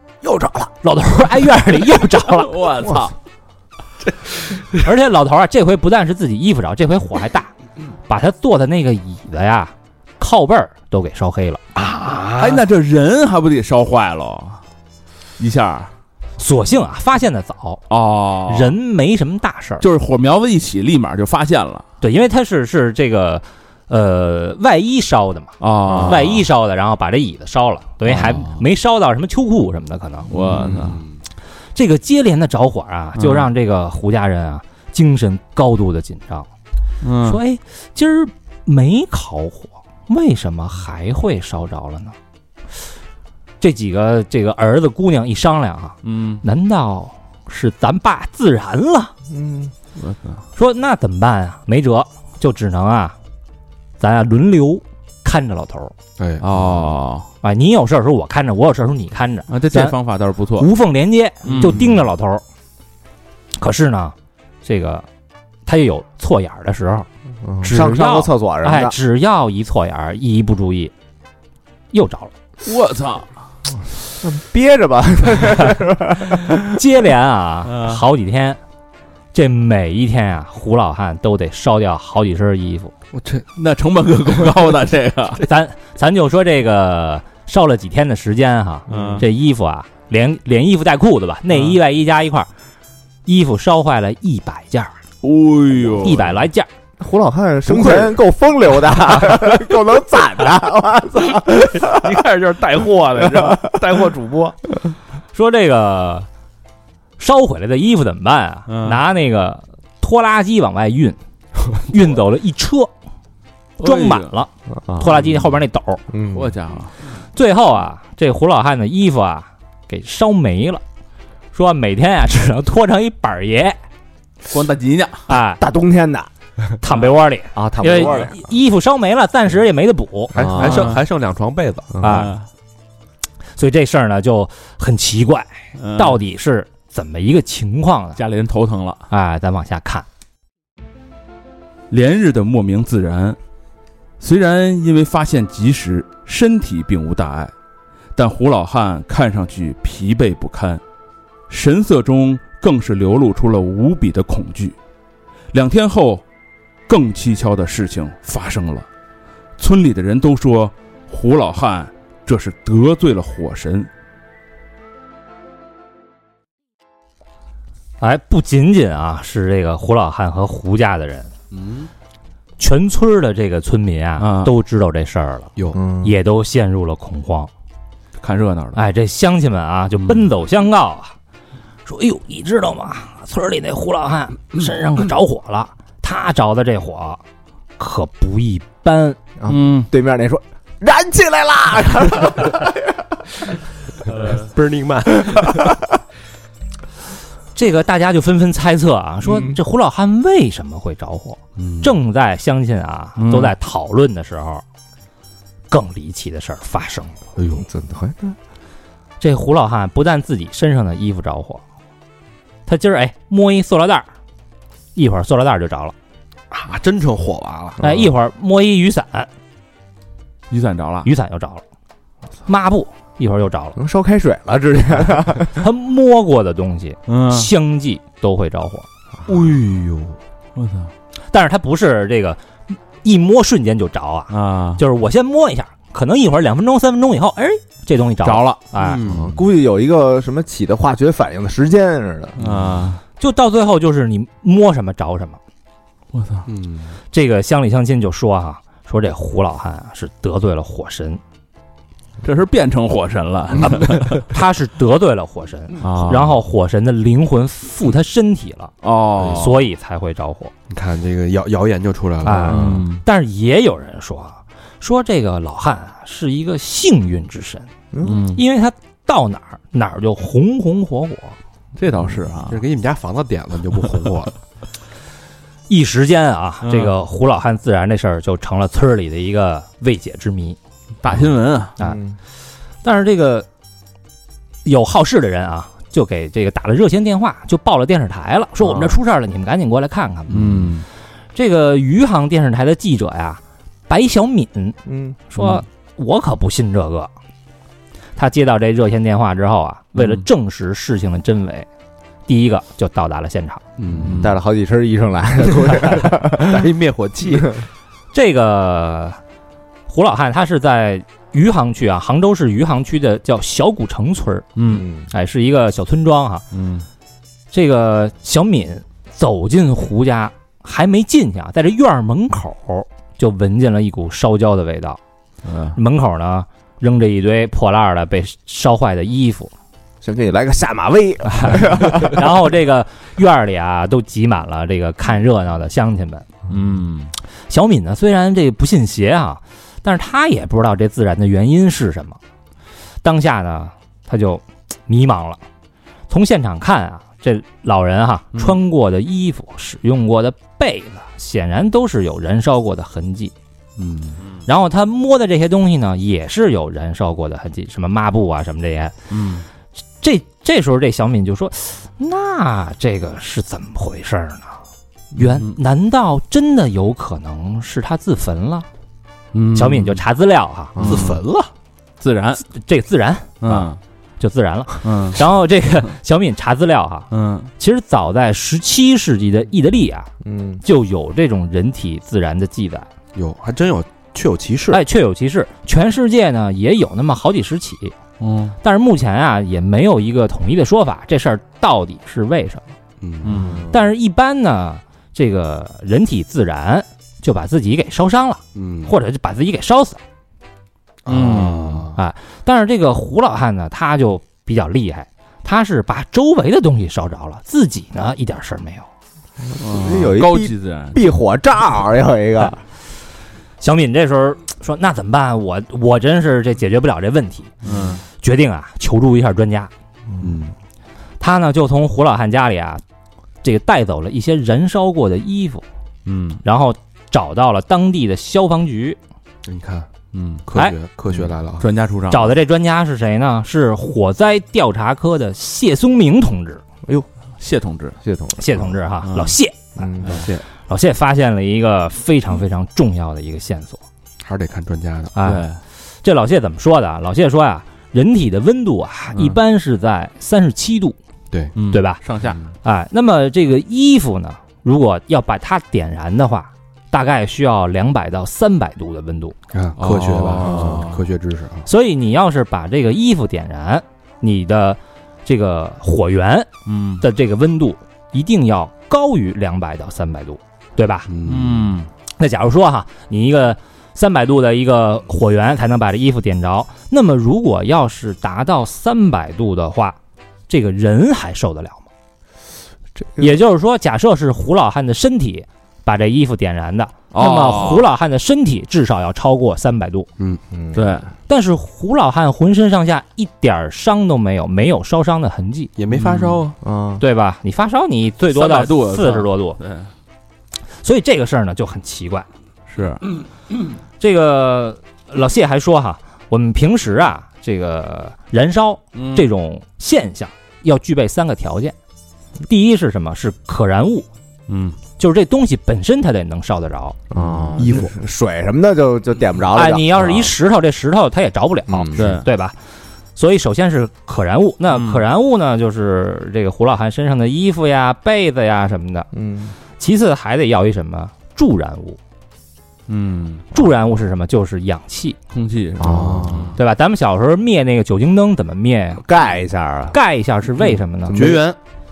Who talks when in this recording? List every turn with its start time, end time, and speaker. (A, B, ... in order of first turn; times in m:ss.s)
0:00.5-0:02.6 A
0:02.3-0:03.1 B
0:04.7-0:07.5 A
0:08.1-0:11.6 A
0:11.8-0:12.6 C
0:12.4-0:14.6 B
0:15.4-0:15.9 B
0:16.4-0:17.8 A
0:17.9-0:18.8 B
0:18.5-0:19.8 A
0:19.8-0:21.8 B
0:22.0-0:30.3 A
0:25.6-0:26.4 B
0:28.1-0:28.6 B
0:30.3-0:31.0 B
0:30.5-0:31.1 C
0:31.8-0:36.5 A
0:33.2-0:33.5 B
0:37.0-0:37.4 B
0:37.2-0:42.2 A
0:43.6-0:49.1 A
0:46.0-0:46.4 B
0:49.3-0:49.7 D
0:50.0-0:50.4 B
0:50.6-0:53.2 A
0:54.0-0:56.0 A
0:56.2-0:56.9 C
0:56.4-0:57.3 B
0:57.4-1:00.0 A
0:59.5-1:00.7 B
1:00.6-1:02.4 A
1:01.5-1:01.8 B
1:03.6-1:05.1 A
1:05.7-1:07.1 A
1:07.4-1:09.0 D
1:07.6-1:10.9 A
1:11.9-1:12.3 A
1:12.6-1:13.3 B
1:14.2-1:16.8 D
1:16.7-1:18.6 A
1:17.7-1:18.0 B
1:19.3-1:22.9 A
1:23.1-1:23.4 C
1:23.6-1:25.4 B
1:25.4-1:32.5 A
1:28.9-1:29.2 B
1:28.9-1:29.2 C
1:33.3-1:34.9 A
1:35.2-1:36.4 B
1:36.0-1:36.7 A
1:37.0-1:42.1 D
1:37.7-1:38.2 C
1:41.2-1:44.6 C
1:43.2-1:43.7 D
1:45.3-1:46.3 A
1:47.2-1:51.2 A
1:48.7-1:49.0 B
1:51.7-1:52.9 A
1:53.8-1:56.0 A
1:53.8-1:54.3 B
1:54.7-1:55.4 D
1:56.1-1:56.5 D
1:56.3-1:56.9 B
1:57.3-2:00.8 A
2:01.5-2:03.8 A
2:04.5-2:05.2 B
2:05.3-2:05.6 A
2:05.6-2:06.3 D
2:06.8-2:10.3 A
2:07.6-2:08.4 D
2:10.3-2:10.9 D
2:10.4-2:11.9 C
2:10.6-2:11.0 B
2:12.0-2:12.2 D
2:12.0-2:12.4 A
2:12.0-2:12.4 B
2:13.6-2:18.2 A
2:15.8-2:16.2 B
2:18.2-2:19.0 B
2:19.1-2:20.1 A
2:21.9-2:23.4 B
2:24.2-2:27.5 B
2:28.2-2:30.8 B
2:31.5-2:34.8 B
2:35.5-2:36.2 B
2:36.9-2:38.9 B
2:39.6-2:43.9 B
2:48.0-2:51.3 A
2:51.5-2:51.9 C
2:52.6-2:57.5 A
2:54.2-2:54.5 B
2:55.7-2:56.1 D
2:58.2-2:58.8 B
2:58.8-3:01.1 A
3:01.9-3:07.2 A
3:07.8-3:09.2 A
3:09.4-3:13.2 D
3:09.5-3:09.9 B
3:14.2-3:15.8 C
3:15.4-3:15.7 D
3:17.6-3:24.6 A
3:21.6-3:21.8 C
3:23.2-3:23.5 B
3:25.7-3:27.2 A
3:27.4-3:27.6 C
3:27.6-3:28.4 D
3:29.2-3:31.6 A
3:32.7-3:34.1 A
3:35.0-3:35.9 A
3:36.5-3:37.8 C
3:37.8-3:39.3 A
3:37.8-3:38.1 D
3:40.5-3:41.1 B
3:41.0-3:41.6 A
3:42.5-3:43.8 A
3:43.8-3:45.6 D
3:45.6-3:48.9 A
3:47.1-3:47.5 B
3:49.3-3:49.6 B
3:49.3-3:50.2 C
3:50.6-3:50.9 B
3:51.3-3:59.0 A
3:54.3-3:54.8 B
3:58.2-3:58.6 B
3:58.8-3:59.4 C
3:59.1-4:02.4 D
4:02.4-4:03.0 B
4:03.2-4:05.4 A
4:06.1-4:06.5 B
4:06.5-4:07.0 C
4:07.1-4:11.2 A
4:12.2-4:14.3 B
4:13.6-4:18.7 A
4:15.8-4:16.4 B
4:18.8-4:19.5 B
4:19.3-4:20.5 A
4:20.7-4:22.8 C
4:22.2-4:27.7 A
4:22.5-4:23.0 B
4:27.9-4:28.2 D
4:28.0-4:28.4 B
4:28.3-4:31.4 A
4:31.8-4:32.6 B
4:32.5-4:34.3 C
4:35.7-4:40.6 A
4:36.6-4:36.9 B
4:41.0-4:41.7 B
4:41.8-4:42.2 D
4:42.8-4:43.5 A
4:44.6-4:50.7 A
4:50.3-4:50.8 B
4:51.4-4:54.8 A
4:54.9-4:55.2 D
4:55.3-4:57.1 A
4:55.4-4:55.6 B
4:58.2-5:01.7 A
5:00.0-5:00.2 B
5:02.3-5:03.6 A
5:03.8-5:04.3 C
5:03.9-5:04.3 B
5:04.2-5:06.7 D
5:06.3-5:07.6 C
5:08.1-5:09.2 A
5:09.9-5:14.5 A
5:14.6-5:14.8 B
5:14.7-5:15.1 D
5:15.1-5:16.4 A
5:16.5-5:16.9 B
5:17.5-5:25.0 A
5:25.4-5:25.8 B
5:25.8-5:29.5 A
5:30.0-5:32.2 D
5:31.5-5:36.3 A
5:36.5-5:37.1 B
5:37.5-5:42.2 A
5:43.0-5:45.4 A
5:46.1-5:53.3 A
5:53.8-5:54.2 B
5:54.5-5:58.9 A
5:59.1-5:59.5 B
6:00.0-6:04.6 A
6:05.2-6:08.7 A
6:09.3-6:10.0 B
6:09.6-6:10.8 A
6:10.8-6:11.2 D
6:10.8-6:11.5 C
6:10.8-6:11.2 B
6:12.0-6:12.4 B
6:12.5-6:13.4 A
6:13.4-6:13.8 B
6:14.2-6:17.1 A
6:14.8-6:15.2 B
6:17.1-6:17.5 B
6:17.6-6:20.1 A
6:20.2-6:20.6 D
6:20.6-6:22.9 A
6:23.2-6:24.8 C
6:24.7-6:28.0 A
6:28.2-6:28.6 B
6:28.6-6:32.6 A
6:33.0-6:33.7 C
6:33.2-6:33.6 B
6:33.7-6:40.0 A
6:38.6-6:38.9 C
6:41.0-6:42.0 C
6:41.1-6:41.9 B
6:42.0-6:48.9 A
6:49.4-6:52.6 D
6:49.6-6:51.0 B
6:53.6-6:57.5 A
6:57.6-6:58.0 B
6:58.1-6:59.7 A
7:00.2-7:00.5 C
7:01.2-7:02.8 A
7:03.4-7:05.6 A
7:06.1-7:06.4 B
7:06.4-7:09.0 A
7:09.5-7:09.9 C
7:10.1-7:10.4 B
7:10.5-7:11.7 C
7:11.6-7:12.4 B
7:12.1-7:16.6 A
7:17.4-7:18.0 B
7:18.0-7:18.7 D
7:18.4-7:19.9 A
7:19.0-7:19.4 B
7:19.8-7:20.2 D
7:20.0-7:20.3 B
7:20.0-7:20.4 C
7:20.7-7:23.8 A
7:24.2-7:25.2 C
7:25.2-7:25.5 A
7:25.2-7:25.6 B
7:26.0-7:31.0 A
7:31.6-7:32.4 B
7:31.7-7:32.0 A
7:32.6-7:39.4 A
7:39.5-7:41.7 C
7:39.8-7:41.0 B
7:40.5-7:40.8 D
7:41.7-7:46.5 A
7:46.7-7:47.0 B
7:47.0-7:51.1 A
7:51.1-7:51.8 C
7:51.2-7:51.9 B
7:52.2-8:00.0 A
8:00.5-8:01.8 A
8:03.0-8:03.3 D
8:03.2-8:10.1 A
8:07.1-8:07.8 B
8:10.5-8:10.8 D
8:10.7-8:11.1 B
8:11.3-8:15.7 A
8:15.8-8:16.6 C
8:15.9-8:16.4 B
8:16.6-8:17.0 D
8:17.0-8:19.6 A
8:18.3-8:19.9 B
8:20.8-8:22.3 A
8:22.7-8:23.0 B
8:24.0-8:31.8 A
8:29.0-8:29.3 B
8:32.5-8:34.1 A
8:34.5-8:34.8 B
8:35.0-8:37.0 A
8:37.1-8:40.2 D
8:37.2-8:37.6 B
8:37.6-8:37.9 C
8:39.5-8:42.6 A
8:41.7-8:42.2 D
8:42.0-8:42.3 B
8:43.2-8:49.1 A
8:44.7-8:45.0 B
8:49.1-8:49.6 D
8:49.8-8:52.0 A
8:52.9-8:53.4 B
8:53.5-8:55.2 A
8:55.3-8:56.5 B
8:55.8-8:56.5 D
8:55.8-8:56.5 C
8:56.6-8:59.0 A
8:59.0-9:00.0 D
8:59.9-9:01.4 A
9:01.1-9:01.4 D
9:01.1-9:01.6 C